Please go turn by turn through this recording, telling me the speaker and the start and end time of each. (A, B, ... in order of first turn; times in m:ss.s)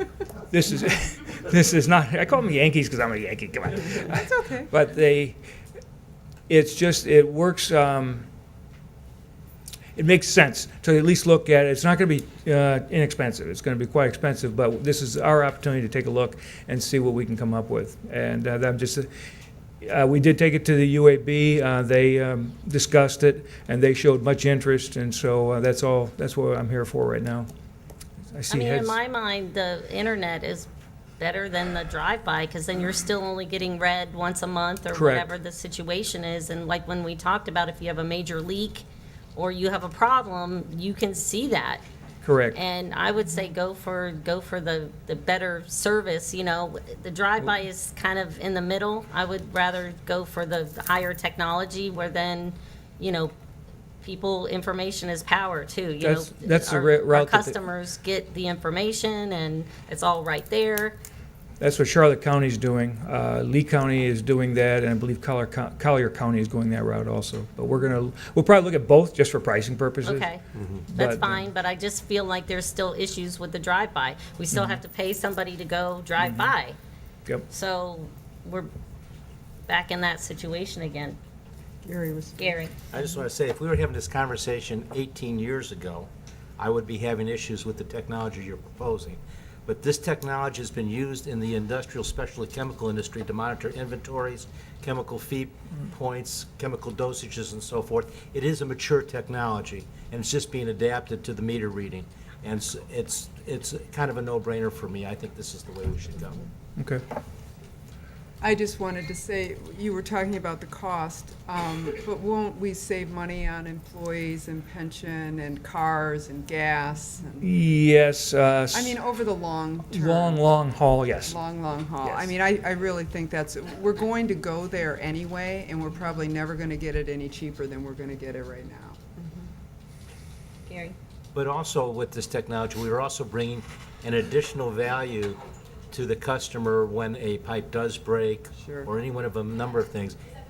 0:00.5-0:05.4 A
0:04.2-0:04.7 B
0:06.5-0:08.3 A
0:10.0-0:19.1 A
0:19.8-0:27.5 A
0:28.3-0:29.0 A
0:28.5-0:41.8 C
0:34.9-0:35.3 A
0:42.2-0:42.6 A
0:42.5-0:53.3 C
0:54.0-1:01.0 C
0:56.0-0:57.6 A
1:01.6-1:10.3 A
1:10.0-1:10.4 C
1:10.9-1:11.4 A
1:10.9-1:16.8 C
1:14.5-1:14.8 A
1:17.5-1:18.7 C
1:19.7-1:21.2 C
1:21.8-1:22.6 B
1:22.4-1:22.7 C
1:22.9-1:46.5 D
1:46.8-1:47.0 A
1:48.4-1:57.5 B
1:57.4-1:59.0 A
1:58.7-2:00.4 B
1:59.9-2:01.4 A
2:01.3-2:09.0 B
2:02.0-2:02.3 A
2:10.7-2:10.9 C
2:11.3-2:15.4 D
2:15.9-2:20.2 D